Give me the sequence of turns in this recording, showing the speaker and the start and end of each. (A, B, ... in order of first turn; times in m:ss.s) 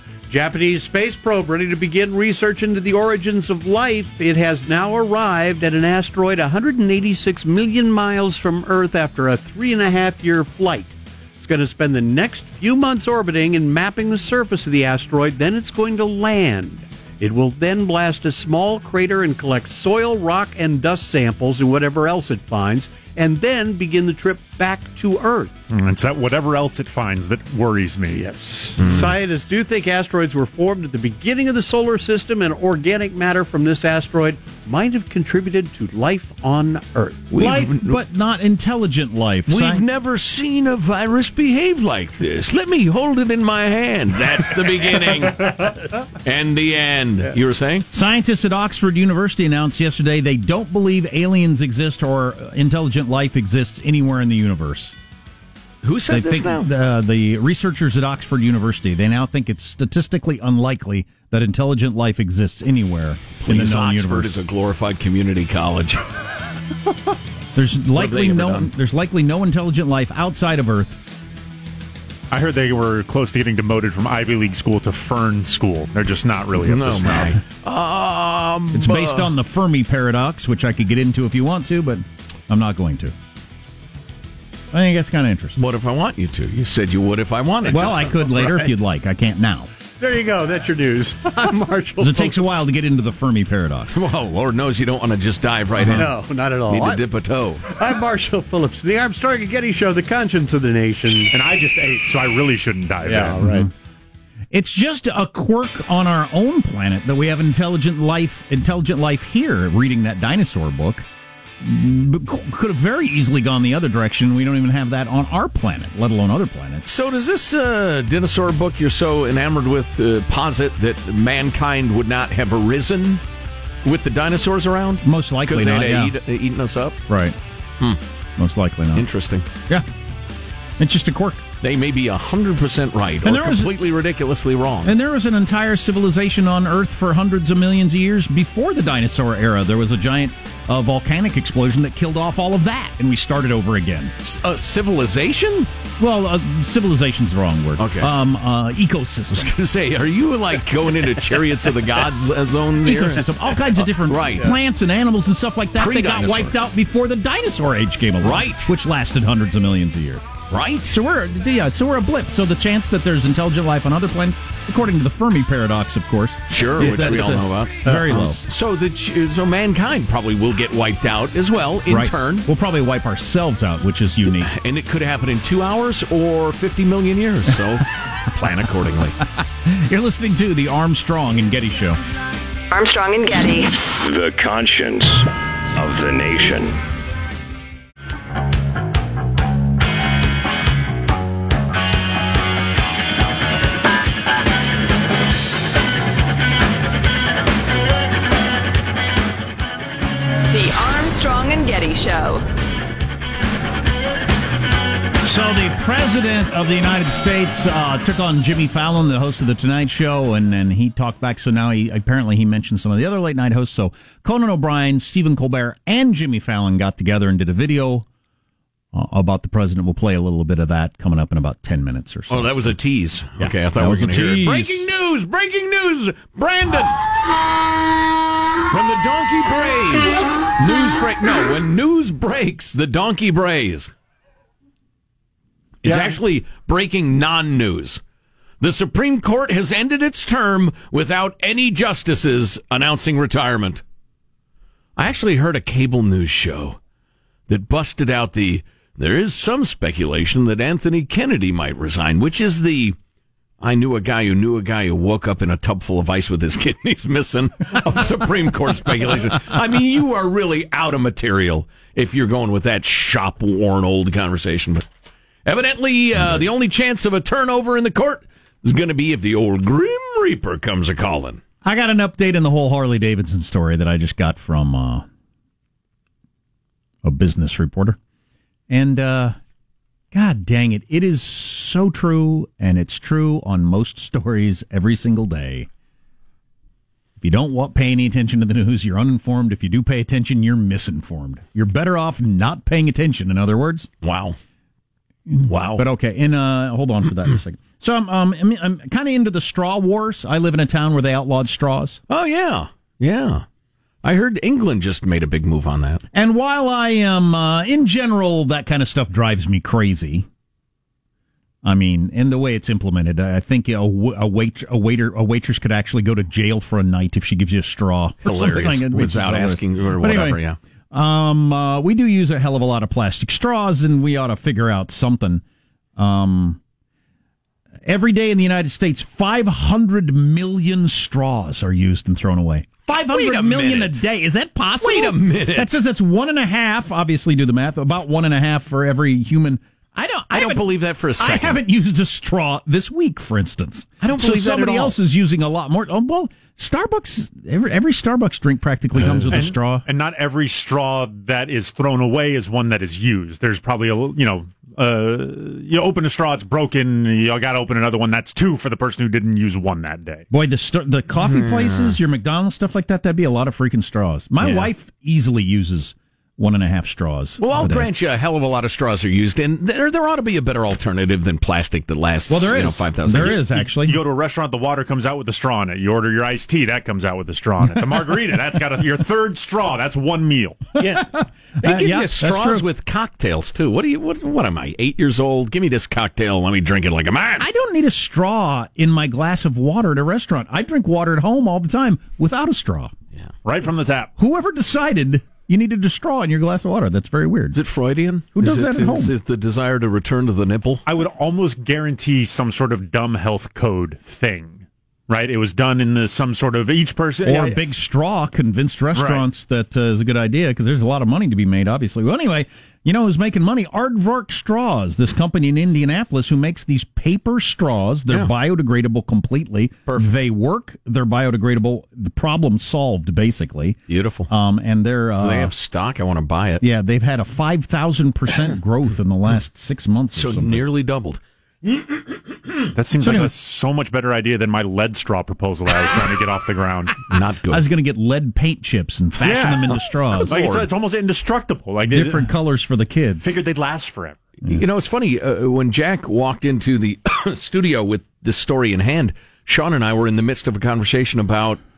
0:00.3-0:25.6 A
0:25.7-0:29.1 B
0:28.4-0:37.2 A
0:37.3-0:38.0 C
0:37.3-0:39.8 D
0:39.5-0:47.9 C
0:47.9-0:55.0 D
0:55.8-0:56.7 C
0:56.1-1:04.3 D
1:03.4-1:06.0 C
1:07.5-1:11.0 D
1:07.9-1:08.7 C
1:12.3-1:17.4 B
1:16.6-1:19.3 C
1:18.7-1:23.1 D
1:24.7-1:25.6 D
1:25.6-1:28.4 C
1:27.7-1:29.7 D
1:28.4-1:28.6 A
1:30.0-1:32.6 A
1:32.0-1:33.9 D
1:33.9-1:36.1 C
1:35.9-1:37.0 A
1:36.7-1:37.6 C
1:37.7-1:41.3 A
1:41.3-1:43.4 B
1:43.0-1:43.7 A
1:43.4-1:43.7 D
1:44.5-1:51.0 D
1:51.6-1:56.9 D
1:56.8-2:03.2 C
2:03.8-2:07.0 C
2:05.0-2:06.2 D
2:07.1-2:07.4 D
2:08.4-2:09.0 D
2:08.9-2:09.4 C
2:10.8-2:11.4 D
2:11.6-2:14.9 C
2:13.2-2:13.7 D
2:14.8-2:24.1 D
2:24.2-2:25.7 C
2:26.0-2:29.5 D
2:27.8-2:28.1 C
2:29.3-2:34.5 C
2:32.8-2:40.3 D
2:35.8-2:36.5 C
2:38.2-2:38.7 C
2:40.5-2:41.0 C
2:40.9-2:48.4 D
2:46.5-2:47.8 C
2:47.9-2:48.2 A
2:48.5-2:52.5 C
2:51.9-2:54.5 D
2:54.3-2:59.2 C
2:59.6-3:02.0 D
3:02.7-3:03.7 E
3:04.0-3:06.8 F
3:20.5-3:22.4 E
3:25.2-3:38.0 D
3:38.9-3:42.7 D
3:42.3-3:47.0 C
3:43.4-3:44.9 D
3:48.7-3:53.9 C
3:55.8-3:58.0 C
3:55.9-3:56.2 B
3:58.6-4:03.8 C
4:05.0-4:06.8 C
4:07.5-4:13.0 C
4:13.6-4:24.9 C
4:25.4-4:31.4 C
4:26.2-4:26.4 D
4:31.6-4:35.0 D
4:37.0-4:38.0 D
4:38.7-4:39.4 D
4:40.1-4:45.7 D
4:47.2-4:53.9 D
4:54.0-4:54.4 C
4:55.3-5:02.0 D
4:55.4-4:55.9 C
5:02.1-5:03.4 C
5:04.0-5:06.0 C
5:06.1-5:10.3 D
5:11.6-5:25.4 D
5:18.2-5:20.6 C
5:26.0-5:26.6 D
5:27.9-5:40.6 D
5:33.0-5:34.0 C
5:34.8-5:35.8 C
5:40.3-5:41.6 C
5:41.2-5:49.9 D
5:44.0-5:44.9 C
5:49.0-5:49.4 C
5:49.3-6:00.3 B
6:00.3-6:07.9 D
6:01.2-6:02.0 C
6:04.4-6:04.7 C
6:07.4-6:13.6 C
6:12.3-6:14.0 D
6:13.8-6:20.7 B
6:20.8-6:21.1 C
6:20.8-6:22.6 D
6:21.6-6:27.4 C
6:27.4-6:32.9 D
6:33.4-6:34.1 B
6:34.2-6:37.6 D
6:37.5-6:40.8 C
6:38.4-6:39.1 D
6:40.9-6:47.7 B
6:47.2-7:05.5 D
6:48.9-6:49.2 B
7:03.9-7:04.3 C
7:05.2-7:06.6 C
7:06.6-7:10.6 D
7:10.1-7:11.2 C
7:12.7-7:17.0 B
7:13.0-7:13.3 D
7:17.1-7:17.7 C
7:17.5-7:20.4 D
7:19.2-7:22.3 B
7:19.7-7:20.7 C
7:21.9-7:23.3 D
7:23.2-7:24.2 B
7:24.4-7:31.6 C